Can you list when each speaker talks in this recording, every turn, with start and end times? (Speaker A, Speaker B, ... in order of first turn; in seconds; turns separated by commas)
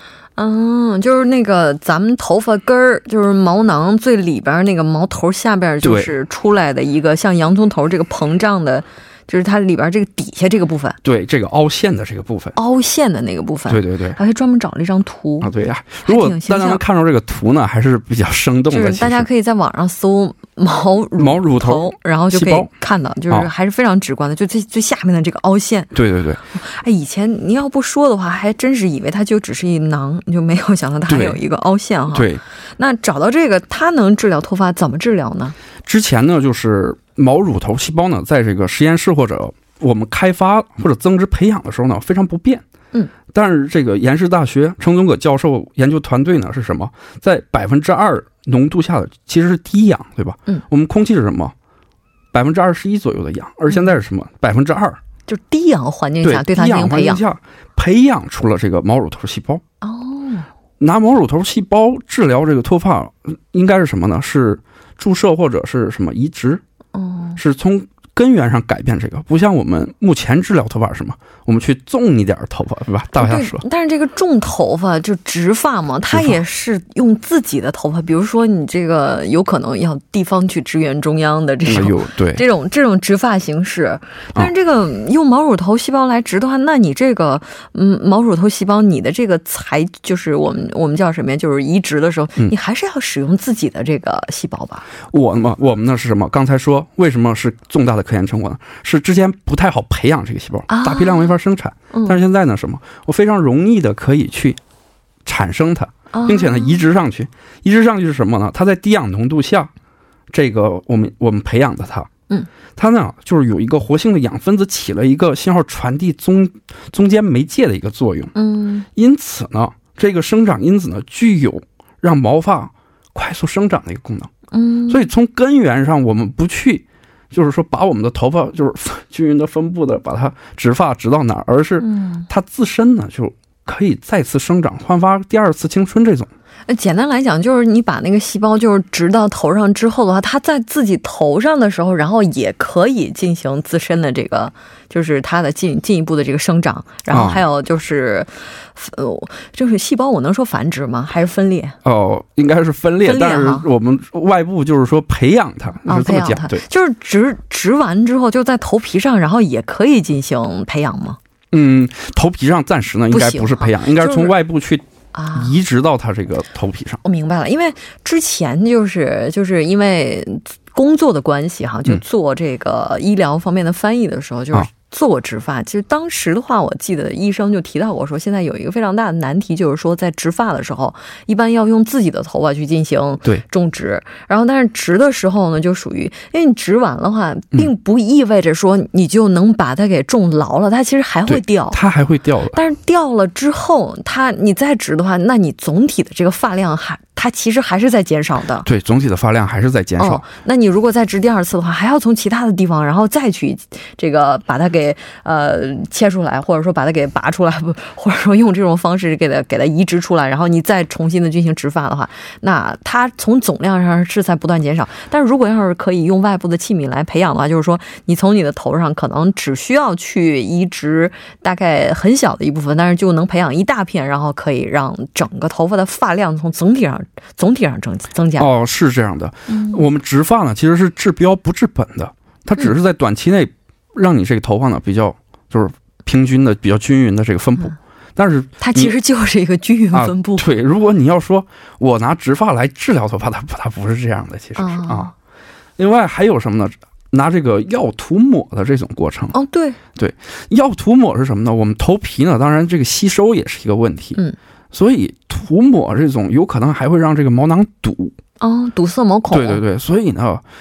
Speaker A: 0.4-11.0, Speaker B: 5.8-6.1, Speaker B: 11.0-12.5, Speaker A: 12.6-15.5, Speaker B: 13.7-14.2, Speaker B: 15.4-19.3, Speaker A: 16.1-16.8, Speaker A: 18.7-25.9, Speaker B: 21.2-22.7, Speaker B: 25.9-26.4, Speaker A: 26.5-35.5, Speaker B: 31.1-31.4, Speaker B: 32.1-32.4, Speaker B: 35.9-42.6, Speaker B: 43.3-51.5, Speaker B: 52.3-55.0, Speaker A: 55.3-57.2, Speaker B: 56.2-59.6, Speaker A: 59.8-60.5, Speaker B: 60.8-66.6, Speaker A: 66.9-67.4, Speaker B: 67.4-73.6, Speaker A: 73.2-94.9, Speaker B: 76.1-76.4, Speaker B: 81.6-82.4, Speaker B: 95.1-104.6, Speaker A: 100.7-101.3, Speaker B: 105.2-109.7, Speaker A: 106.1-106.8, Speaker B: 110.3-112.1, Speaker B: 112.8-118.3, Speaker A: 118.3-118.9, Speaker B: 119.0-124.3, Speaker A: 124.5-125.0, Speaker B: 124.9-136.3, Speaker A: 131.8-132.3, Speaker A: 136.7-151.8, Speaker B: 147.1-147.4, Speaker B: 151.8-156.6, Speaker A: 153.0-153.7, Speaker A: 155.9-161.2, Speaker B: 161.5-167.0, Speaker A: 163.1-164.3, Speaker A: 165.1-165.5, Speaker A: 167.0-191.8, Speaker B: 191.3-192.6, Speaker A: 192.5-198.7, Speaker B: 198.6-200.3, Speaker A: 200.0-228.5, Speaker B: 228.4-238.9, Speaker A: 229.5-229.8, Speaker A: 238.6-240.4, Speaker B: 239.9-245.1, Speaker A: 244.6-245.1, Speaker B: 245.8-249.3, Speaker A: 249.3-249.8, Speaker B: 250.0-254.2, Speaker B: 254.7-258.1, Speaker A: 258.4-259.6, Speaker B: 259.3-260.4